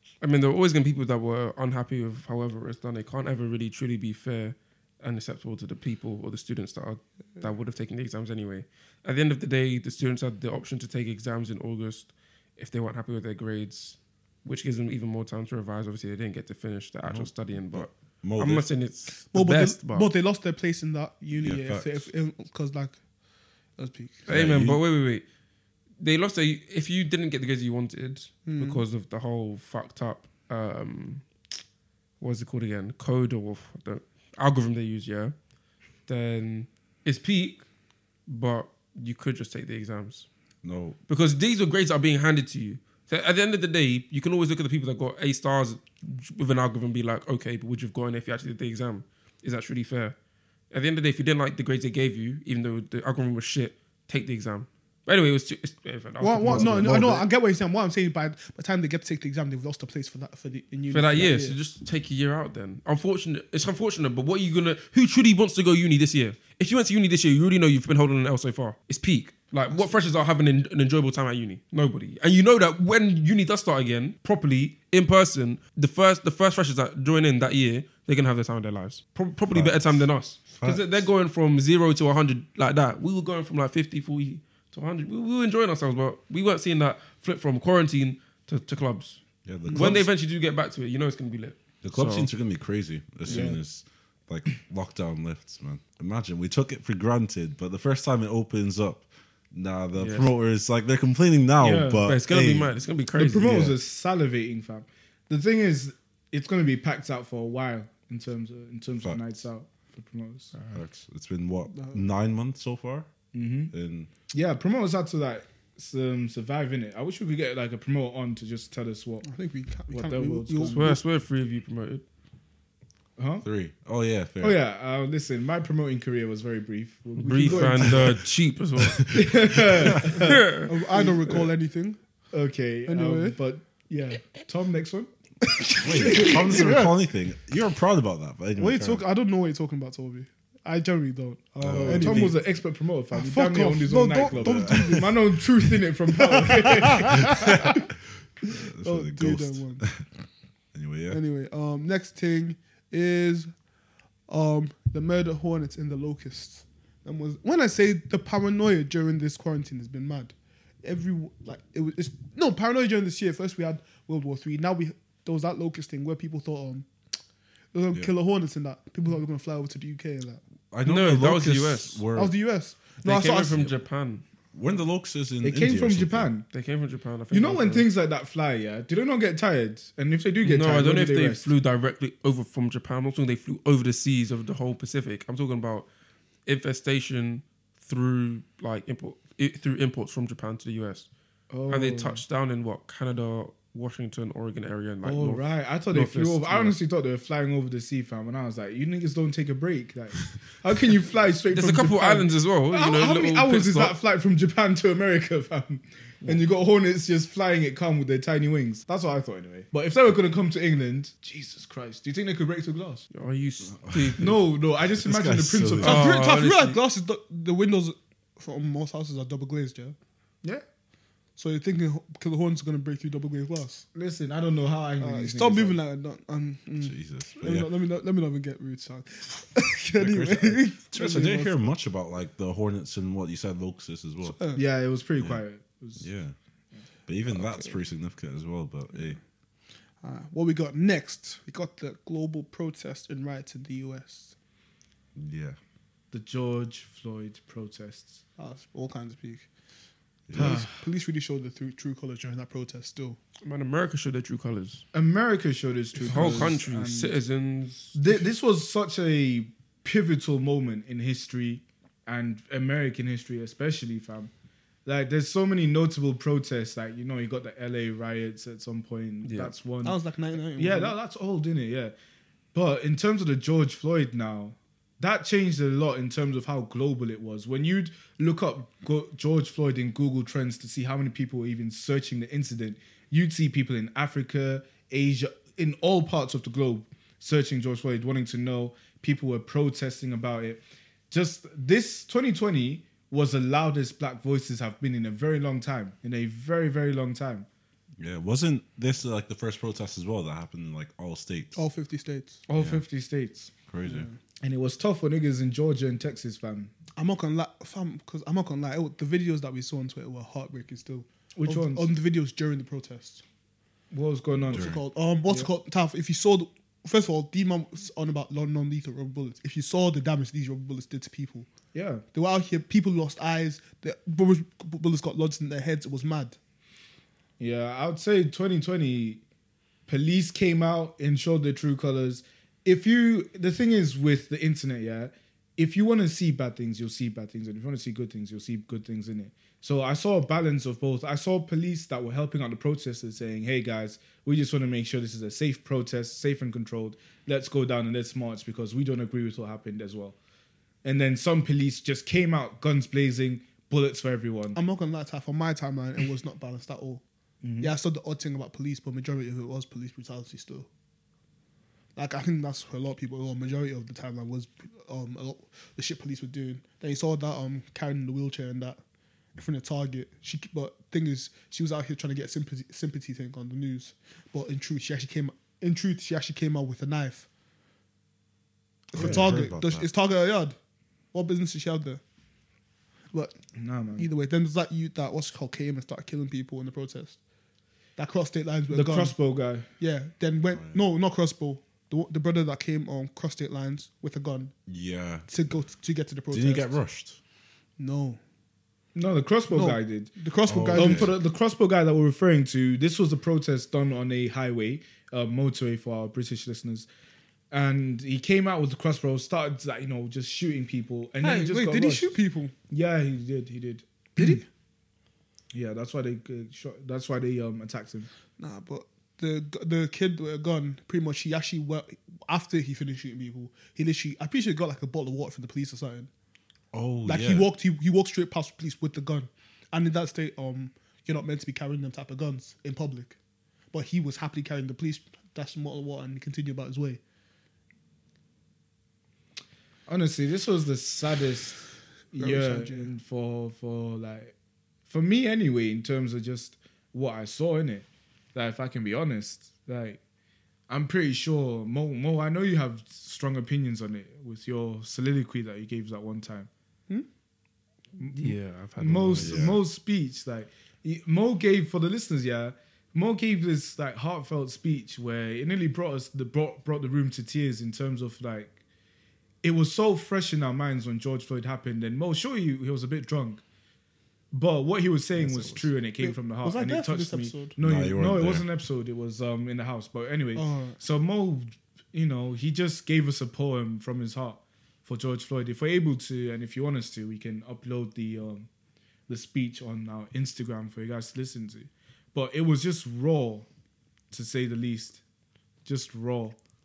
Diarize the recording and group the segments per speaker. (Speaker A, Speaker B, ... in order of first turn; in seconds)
Speaker A: 0.2-20.1, 24.3-25.2, 26.0-31.2, 32.2-35.3, 36.1-37.6, 38.3-40.3, 41.1-50.1, 50.7-57.2, 60.9-92.3, 93.3-93.5, 100.0-100.3, 102.0-103.7, 120.7-122.0, 127.2-129.2, 130.0-130.7, 170.8-172.0, 173.0-174.2, 176.5-177.9, 180.4-185.9, 186.5-191.1, 191.7-196.8, 201.5-204.0, 213.1-214.4, 215.8-216.8, 253.4-254.8, 256.0-258.0, 269.2-269.5, 458.0-459.5, 475.2-475.7
Speaker B: 17.1-18.7, 21.4-22.1, 24.3-24.8, 40.6-41.0, 56.5-57.0, 79.5-81.0, 89.5-90.1, 91.8-102.7, 103.4-103.7, 110.7-113.1, 113.7-114.1, 123.4-124.6, 127.5-128.2, 128.8-130.2, 135.8-139.0, 141.6-142.3, 144.2-145.7, 147.1-147.8, 148.4-150.1, 150.7-151.2, 170.7-172.3, 174.5-176.3, 213.7-216.0, 226.8-227.7, 230.0-234.4, 235.2-235.4, 236.0-236.3, 237.1-239.2, 245.2-245.6, 250.3-250.6, 298.0-301.6, 302.6-302.9, 303.7-304.1, 314.4-314.8, 378.9-379.9, 394.7-395.3, 396.3-397.2, 400.5-401.1, 426.7-427.5, 459.1-459.6, 477.6-478.4
Speaker C: 19.3-23.0, 23.8-24.3, 28.5-28.8, 56.2-61.6, 89.7-89.9, 111.7-112.0, 119.2-121.0, 130.7-132.0, 132.9-133.4, 135.5-136.9, 138.6-142.4, 143.1-145.1, 146.3-147.8, 148.6-149.9, 151.1-153.5, 154.3-166.9, 167.7-170.4, 172.2-173.7, 215.8-220.0, 221.4-223.9, 225.0-231.6, 234.2-234.6, 240.0-244.3, 248.4-249.5, 250.3-253.2, 256.2-256.4, 269.8-271.0, 301.6-302.4, 303.9-304.2, 307.0-313.2, 314.5-321.5, 322.1-326.4, 354.6-357.0, 357.6-360.7, 362.0-368.8, 369.4-377.3, 378.9-380.6, 381.1-382.0, 383.1-383.4, 384.0-387.2, 388.0-389.2, 389.8-394.5, 395.3-396.8, 397.8-398.2, 399.5-401.2, 411.2-412.5, 414.2-414.4, 418.4-426.1, 427.0-433.2, 433.7-437.0, 442.2-442.9, 476.0-477.6, 480.4-480.8
Speaker D: 93.3-93.6, 101.6-102.1, 103.2-110.5, 113.3-113.7, 114.3-119.3, 119.9-121.0, 123.2-123.5, 124.4-128.2, 129.1-131.5, 132.3-135.1, 141.7-147.6, 175.4-176.5, 177.3-181.5, 191.5-192.2, 195.0-213.1, 214.2-216.2, 223.9-225.8, 234.6-236.1, 246.1-248.2, 250.3-250.7, 254.9-257.1, 257.9-264.3, 264.9-270.0, 270.6-271.9, 272.5-297.5, 302.5-303.5, 304.4-306.7, 311.4-311.9, 313.9-314.7, 321.7-322.0, 327.4-329.2, 329.9-350.2, 350.8-354.6, 357.4-357.7, 379.0-379.4, 383.6-384.1, 388.7-389.7, 398.9-400.1, 400.7-406.9, 407.5-412.2, 412.7-414.4, 415.5-418.1, 439.9-444.4, 444.9-450.0, 450.7-456.5, 458.0-468.6, 469.4-473.4, 474.3-488.5, 489.1-493.5, 494.1-495.0, 495.6-496.4